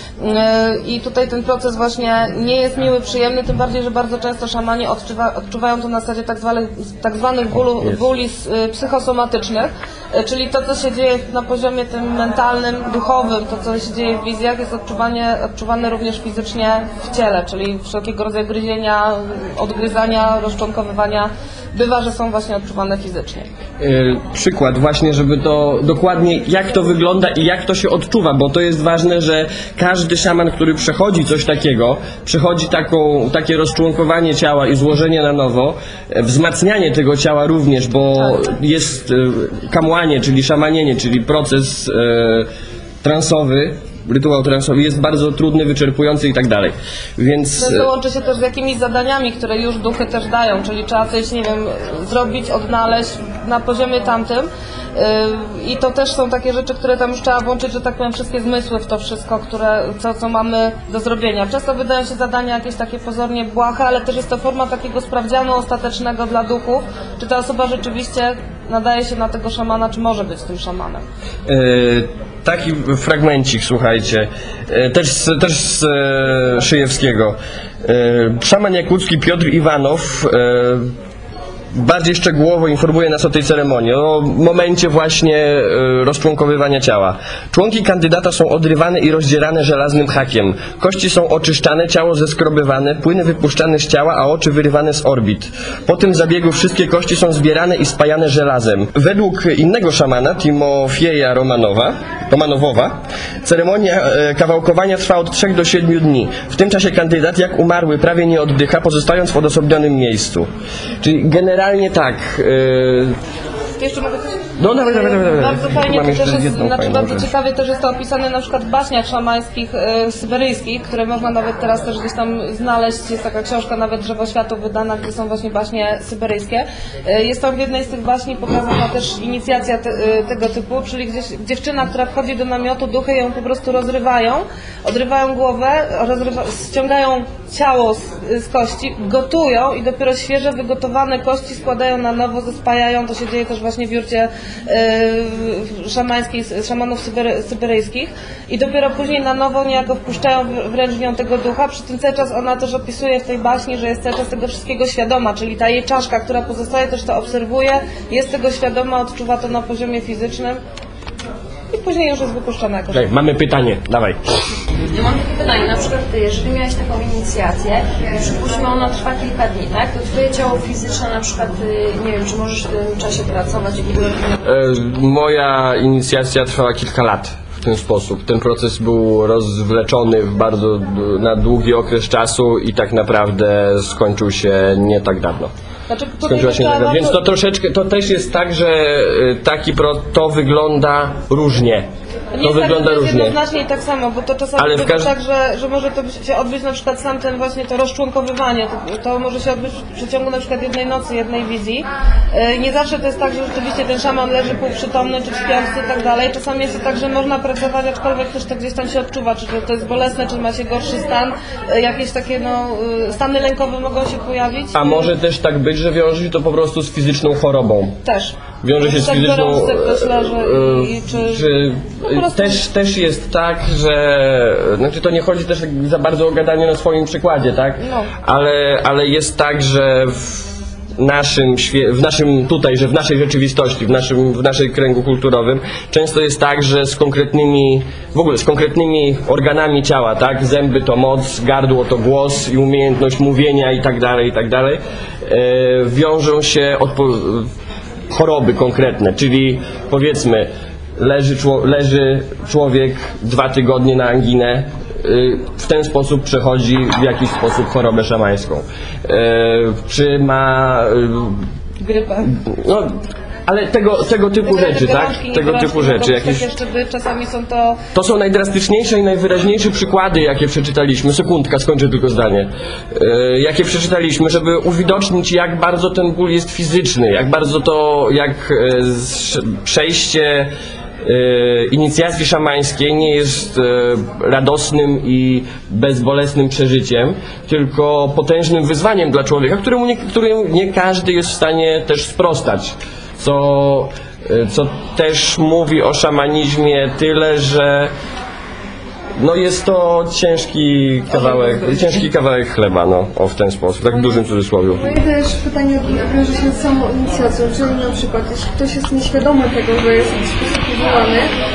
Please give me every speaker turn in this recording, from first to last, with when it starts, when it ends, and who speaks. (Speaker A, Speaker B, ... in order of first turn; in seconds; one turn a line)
Speaker A: 0.2-23.5
Speaker B: 7.6-8.0
Speaker B: 23.8-42.5
Speaker B: 43.0-47.9
Speaker A: 47.6-71.0
Speaker B: 71.5-80.9
Speaker B: 81.7-110.5
Speaker B: 111.0-113.2
Speaker A: 113.8-160.6
Speaker B: 114.6-117.3
Speaker A: 161.7-163.1
Speaker B: 162.9-164.2
Speaker C: 164.9-174.4
Speaker B: 174.4-185.5
Speaker A: 185.9-187.2
Speaker B: 186.3-191.9
Speaker A: 192.3-215.1
Speaker B: 192.4-193.4
Speaker B: 194.6-195.1
Speaker B: 214.7-218.0
Speaker A: 218.1-221.6
Speaker B: 218.6-247.5
Speaker A: 222.1-222.6
Speaker A: 227.8-228.1
Speaker B: 248.1-261.5
Speaker A: 261.8-262.3
Speaker B: 262.3-266.4
Speaker A: 264.4-267.8
Speaker B: 267.9-297.9
Speaker B: 299.2-304.9
Speaker D: 304.7-311.3